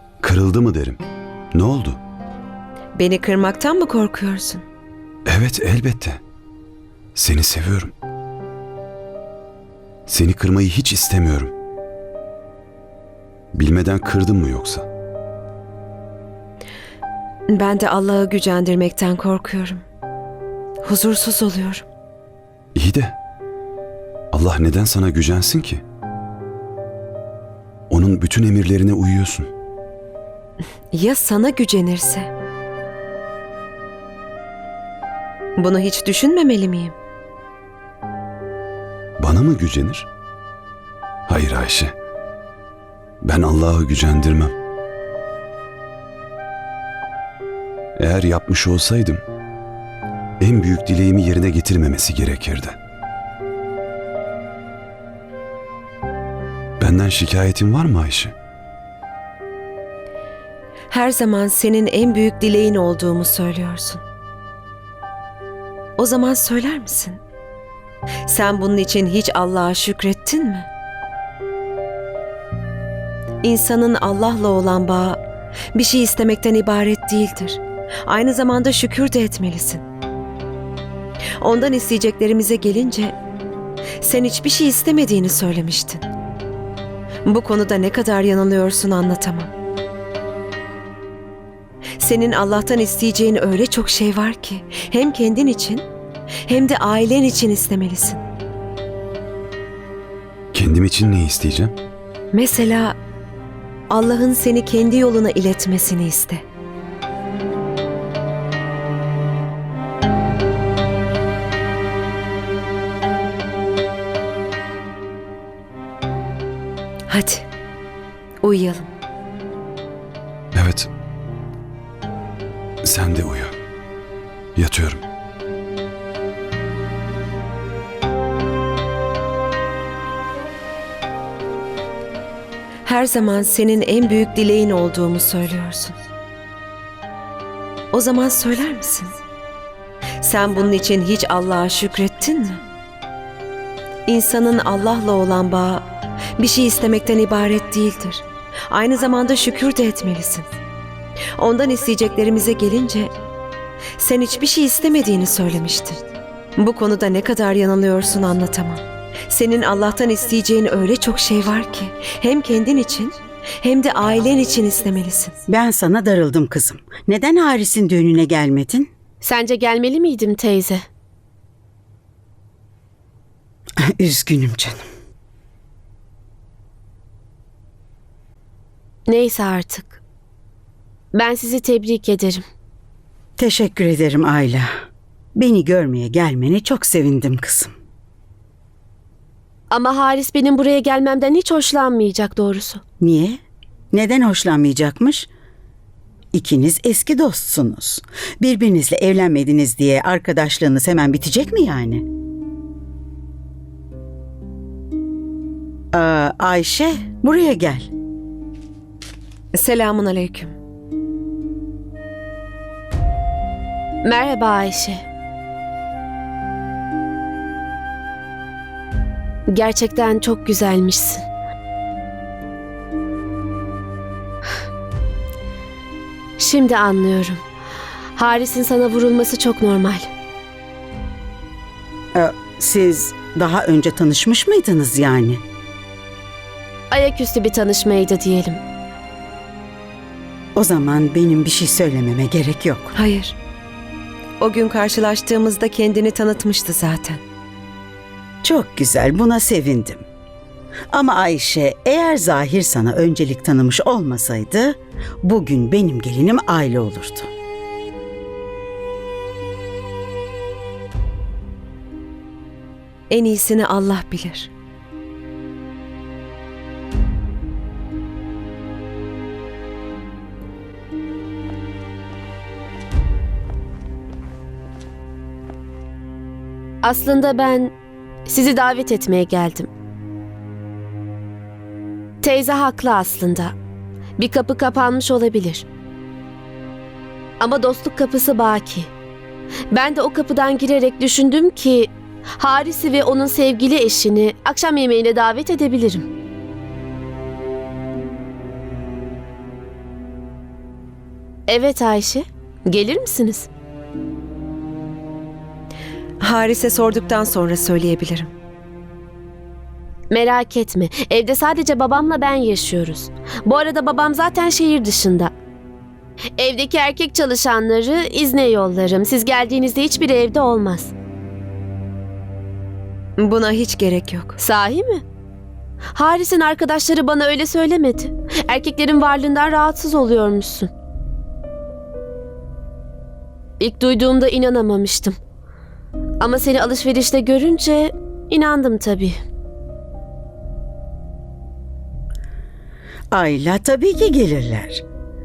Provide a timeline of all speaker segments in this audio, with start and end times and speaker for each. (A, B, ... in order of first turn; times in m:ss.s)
0:00.2-0:01.0 A
0:01.5-0:02.0 A
0:02.9-0:04.6 B
0:05.2-0:06.2 A
0:07.1-0:07.9 A
0:10.1-0:11.5 A
0:13.5-0:14.8 A
0:17.5-0:19.8 B
0:20.8-0:21.8 B
0:22.7-0:23.1 A
0:24.3-0:25.8 A
0:27.9-0:29.5 A
0:30.9-0:32.3 B
0:35.6-0:36.9 B
0:39.2-0:40.1 A
0:41.3-0:41.9 A
0:43.2-0:44.5 A
0:48.0-0:49.2 A
0:50.4-0:52.8 A
0:56.8-0:58.3 A
1:00.9-1:04.0 B
1:06.0-1:07.2 B
1:08.3-1:10.7 B
1:13.4-1:15.2 B
1:15.7-1:19.8 B
1:21.4-1:23.1 B
1:24.0-1:26.1 B
1:27.2-1:29.5 B
1:32.0-1:35.8 B
1:36.5-1:38.2 B
1:40.5-1:41.7 A
1:42.3-1:43.0 B
1:43.9-1:46.4 B
1:57.1-1:57.5 B
1:58.4-1:58.9 B
2:00.5-2:00.9 A
2:02.8-2:03.5 A
2:04.6-2:05.0 A
2:12.8-2:16.0 B
2:17.9-2:19.2 B
2:20.2-2:22.6 B
2:24.0-2:25.8 B
2:26.4-2:30.5 B
2:31.4-2:33.1 B
2:34.0-2:36.0 B
2:36.6-2:45.4 B
2:45.5-2:48.9 C
2:49.2-2:50.8 D
2:53.8-2:54.8 C
2:59.1-3:00.0 D
3:01.1-3:02.4 D
3:03.4-3:04.7 C
3:05.3-3:07.7 C
3:09.7-3:12.8 D
3:13.0-3:13.4 C
3:13.9-3:15.3 C
3:16.3-3:22.0 C
3:25.9-3:27.9 C
3:29.5-3:30.6 B
3:34.0-3:35.0 D
3:39.5-3:41.2 D
3:46.4-3:47.4 D
3:48.2-3:50.1 D
3:52.1-3:55.4 C
3:56.9-3:58.6 D
4:00.5-4:02.9 C
4:03.0-4:03.4 B
4:04.4-4:07.2 B
4:08.4-4:10.0 C
4:10.9-4:17.3 C
4:23.1-4:24.5 B
4:36.8-4:37.7 D
4:38.2-4:39.7 D
4:42.2-4:43.5 D
4:44.2-4:45.6 D
4:47.4-4:48.9 D
4:49.7-4:56.1 D
5:01.5-5:03.5 D
5:06.2-5:08.3 B
5:10.1-5:15.3 D
5:16.4-5:20.9 D
5:23.2-5:24.4 B
5:24.4-5:25.0 D
5:25.9-5:30.7 D
5:33.6-5:35.2 D
5:36.2-5:39.2 D
5:43.1-5:44.8 C